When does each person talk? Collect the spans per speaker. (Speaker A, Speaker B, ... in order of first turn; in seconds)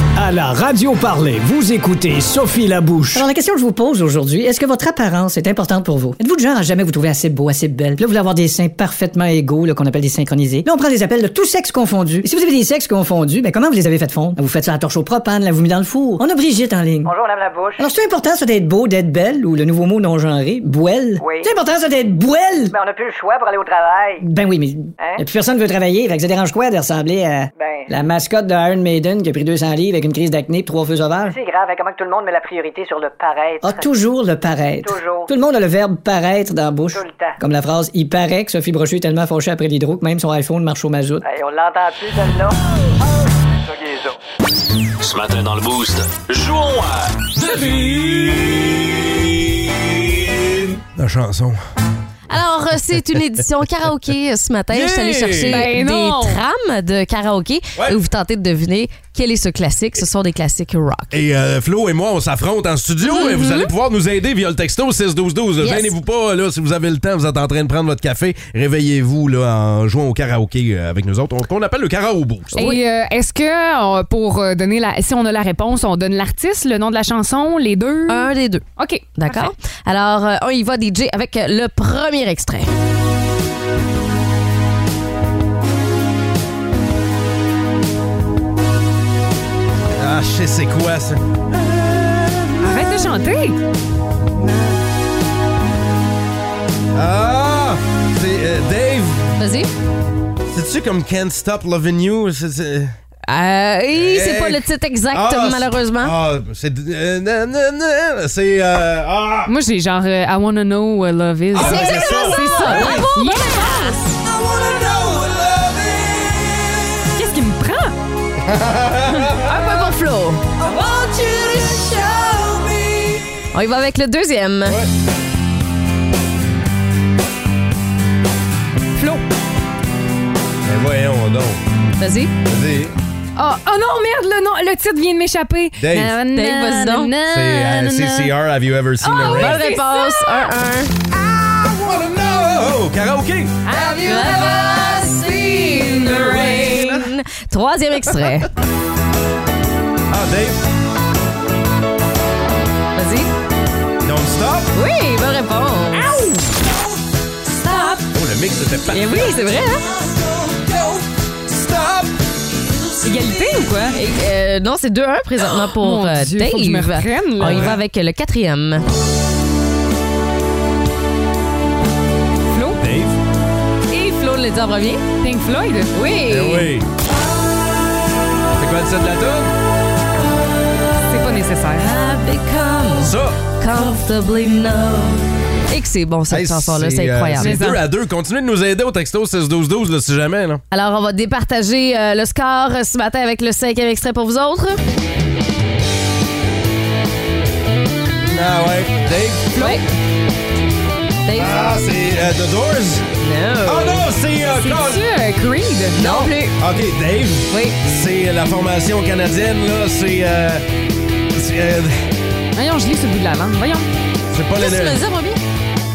Speaker A: 0.1-3.3
Speaker B: 3.1-17.1, 17.8-22.7, 24.2-31.4, 33.6-41.2
Speaker C: 17.0-17.9, 21.2-21.5, 22.7-24.2, 25.0-25.2, 27.5-27.9, 31.2-33.9, 34.8-35.3, 36.9-37.4, 41.2-42.6, 43.6-44.1
Speaker D: 45.0-47.3
Speaker E: 47.4-48.8, 51.0-51.6, 54.7-55.6, 61.1-72.6, 90.0-92.9, 96.9-99.4, 100.5-103.0, 103.9-109.5, 111.5-113.1, 114.2-116.5, 118.4-119.5, 121.1-121.8, 130.7-131.6, 132.4-132.9, 135.8-136.1, 137.3-139.7, 141.1-143.6, 146.2-147.0, 150.1-150.6, 154.0-154.7, 158.1-159.5, 161.5-162.1, 167.4-167.8, 172.8-173.2, 176.3-176.9, 178.6-179.5, 183.0-183.4, 186.3-190.6, 198.3-199.5, 201.3-203.1, 203.7-205.0, 206.6-210.6, 211.3-212.1, 214.3-215.0
Speaker F: 52.3-61.2, 63.0-63.7, 65.6-65.9, 72.5-72.8, 78.1-78.6, 79.1-82.7, 99.4-99.7, 103.3-106.1, 111.5-114.1, 119.4-121.0, 121.6-122.5, 123.5-124.8, 132.0-132.3, 136.2-137.1, 139.1-140.9, 143.8-148.5, 152.9-153.3, 154.7-156.3, 157.6-158.0, 158.9-159.9, 163.9-168.8, 173.9-175.0, 175.9-176.7, 181.8-187.6, 190.7-194.8, 201.2-201.6, 203.2-204.1, 205.9-206.5, 207.5-207.7, 214.6-215.4
Speaker G: 55.5-56.4, 72.5-79.5, 92.6-93.6, 109.5-114.0, 117.1-118.0, 128.9-129.2, 133.3-138.3, 139.0-140.5, 143.6-146.9, 155.9-156.5, 163.0-164.0, 165.8-167.6, 172.5-172.8, 175.2-176.0, 181.1-181.9, 187.4-187.8, 199.5-199.9, 204.6-206.5, 212.5-213.9